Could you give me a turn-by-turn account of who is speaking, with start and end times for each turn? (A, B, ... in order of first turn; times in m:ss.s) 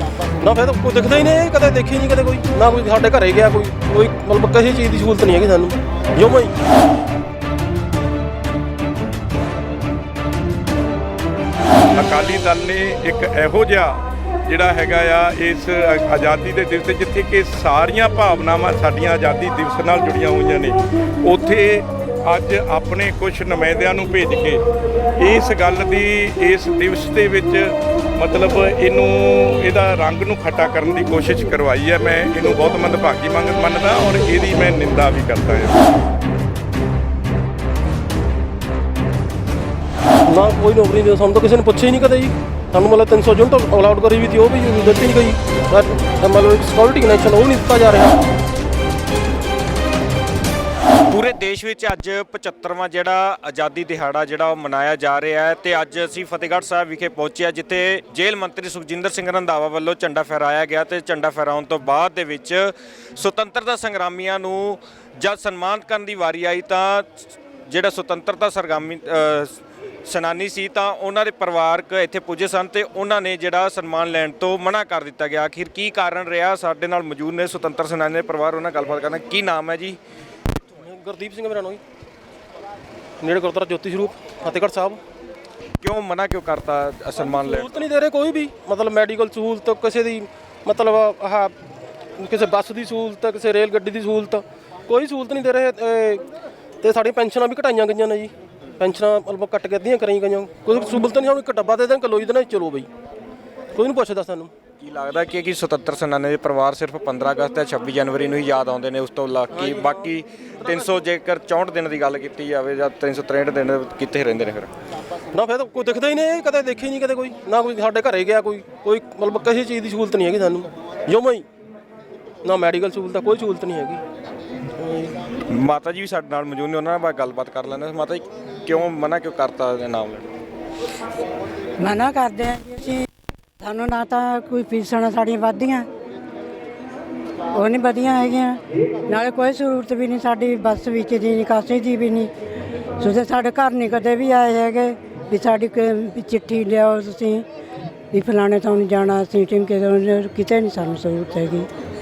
0:00.4-0:06.5 A
0:11.9-0:24.6 B
0:25.2-0:35.8 B
0:40.3-0:48.2 A
0:51.1-1:20.0 C
1:20.8-1:21.8 A
1:23.2-1:25.0 A
1:25.8-1:27.9 C
1:27.2-1:31.6 A
1:32.2-1:36.2 A
1:36.8-1:42.9 A
1:43.7-1:44.5 A
1:44.8-1:54.7 C
1:49.5-1:50.9 A
1:55.3-2:01.4 A
2:02.4-2:04.0 A
2:04.8-2:05.1 A
2:05.5-2:10.3 C
2:11.8-2:13.1 D
2:13.6-2:15.9 D
2:17.5-2:22.3 D
2:23.0-2:27.4 D
2:28.1-2:31.7 D